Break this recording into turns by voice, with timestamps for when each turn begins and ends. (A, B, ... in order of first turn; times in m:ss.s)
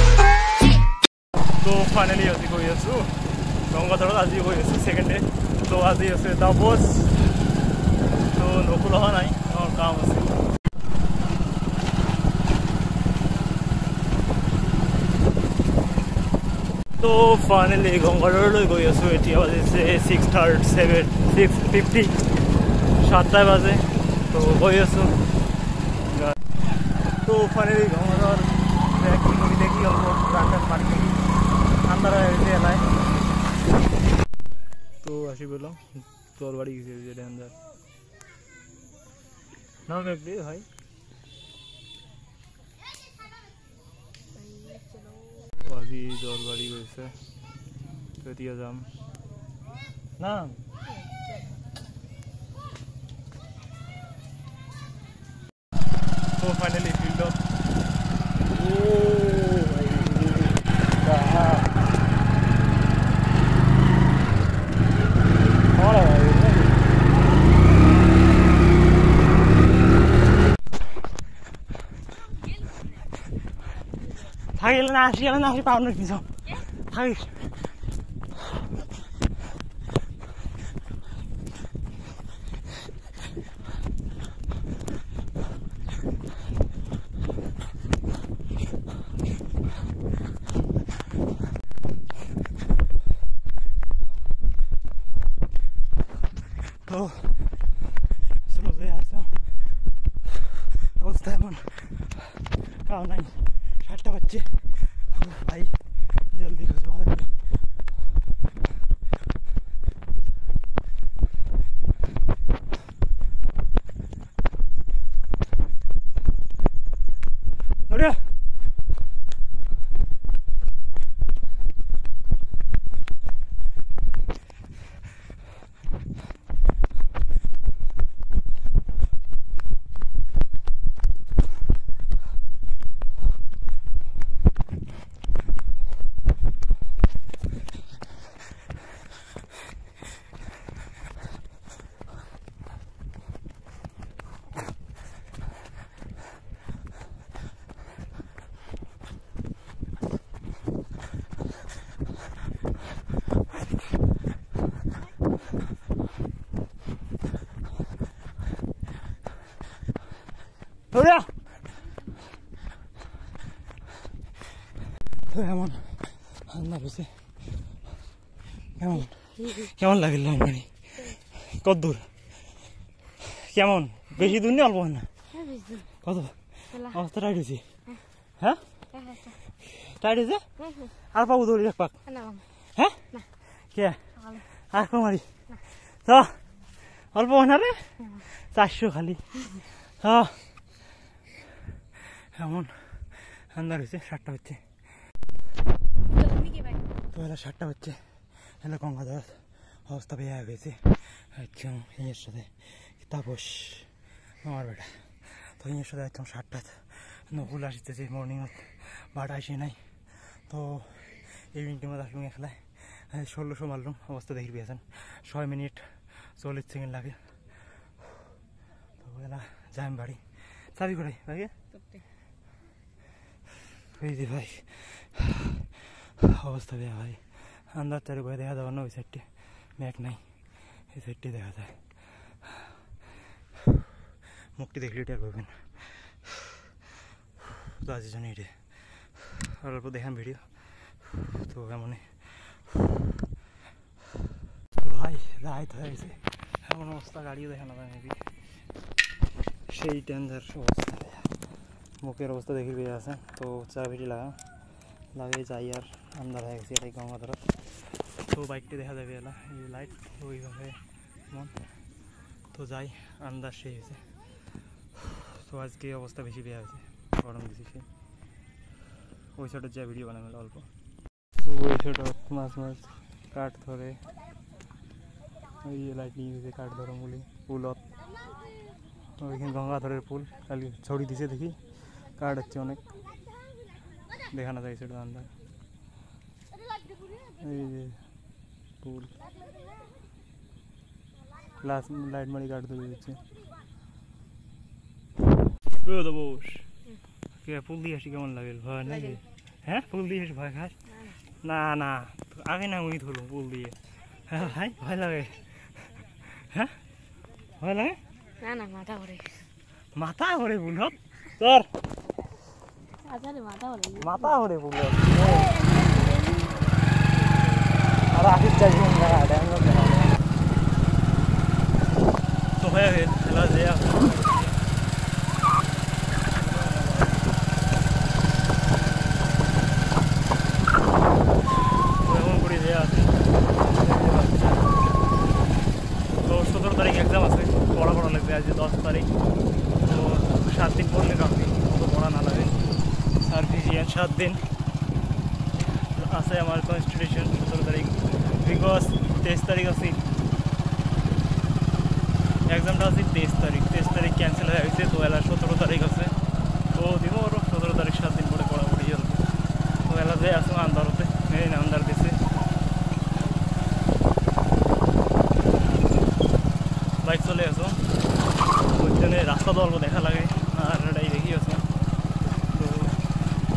0:01.6-0:07.3 A
0:08.3-0:10.4 A
0:17.0-0:22.2 A
0:22.9-0:25.2 A
0:27.2-0:31.2 A
0:31.8-0:33.0 A
0:35.0-0:37.6 A
0:39.9-0:40.7 A
0:44.4-0:45.5 B
0:45.5-0:47.2 A
0:48.2-0:48.9 A
0:50.2-0:50.6 A
0:50.9-0:51.5 B
0:56.4-0:57.4 A
0:58.5-1:01.7 A
1:05.7-1:06.8 A
1:14.5-1:17.5 A
1:36.8-1:37.8 A
1:38.4-1:39.5 A
1:40.8-1:47.4 A
1:57.9-1:58.2 A
2:40.9-2:41.3 A
2:45.3-2:47.2 A
2:48.8-2:50.7 A
2:51.3-2:52.1 A
2:53.2-2:55.1 A
2:55.3-2:55.9 B
2:56.0-2:57.7 A
2:56.7-2:57.0 B
2:58.9-2:59.4 B
2:59.7-3:00.5 A
3:00.6-3:00.9 B
3:01.0-3:02.0 A
3:02.1-3:02.4 B
3:03.5-3:04.0 A
3:04.2-3:04.4 B
3:04.5-3:05.3 A
3:05.9-3:06.4 A
3:07.1-3:10.5 A
3:12.1-3:14.6 A
3:16.1-3:16.8 B
3:17.1-3:37.3 A
3:39.0-3:41.5 A
3:43.9-3:45.6 A
3:46.2-3:52.0 A
3:54.6-3:56.5 A
3:57.7-4:02.8 A
4:04.8-4:08.3 A
4:09.7-4:11.4 A
4:12.0-4:14.4 A
4:15.1-4:17.5 A
4:18.2-4:21.6 A
4:22.5-4:24.1 A
4:25.0-4:27.9 A
4:29.4-4:30.7 A
4:31.4-4:34.0 A
4:35.6-4:37.8 A
4:39.2-4:41.6 A
4:42.2-4:42.8 A
4:44.3-4:45.3 A
4:47.4-4:48.0 A
4:48.8-4:49.2 A
4:51.6-4:53.2 A
4:55.8-4:56.7 A
4:57.4-5:00.8 A
4:58.9-4:59.2 B
5:01.4-5:03.8 A
5:04.3-5:05.6 A
5:06.3-5:06.8 A
5:07.6-5:08.0 A
5:08.4-5:09.5 B
5:10.0-5:11.7 A
5:13.0-5:14.2 B
5:14.0-5:15.6 A
5:15.2-5:16.7 B
5:17.2-5:17.5 B
5:18.0-5:20.2 A
5:22.6-5:24.6 A
5:26.3-5:27.3 A
5:28.6-5:29.6 A
5:31.9-5:34.9 A
5:36.2-5:39.1 A
5:39.8-5:44.5 A
5:45.8-5:50.1 A
5:52.5-5:56.2 A
5:56.7-6:02.2 A
6:07.0-6:07.8 A
6:08.7-6:11.7 A
6:12.5-6:13.0 A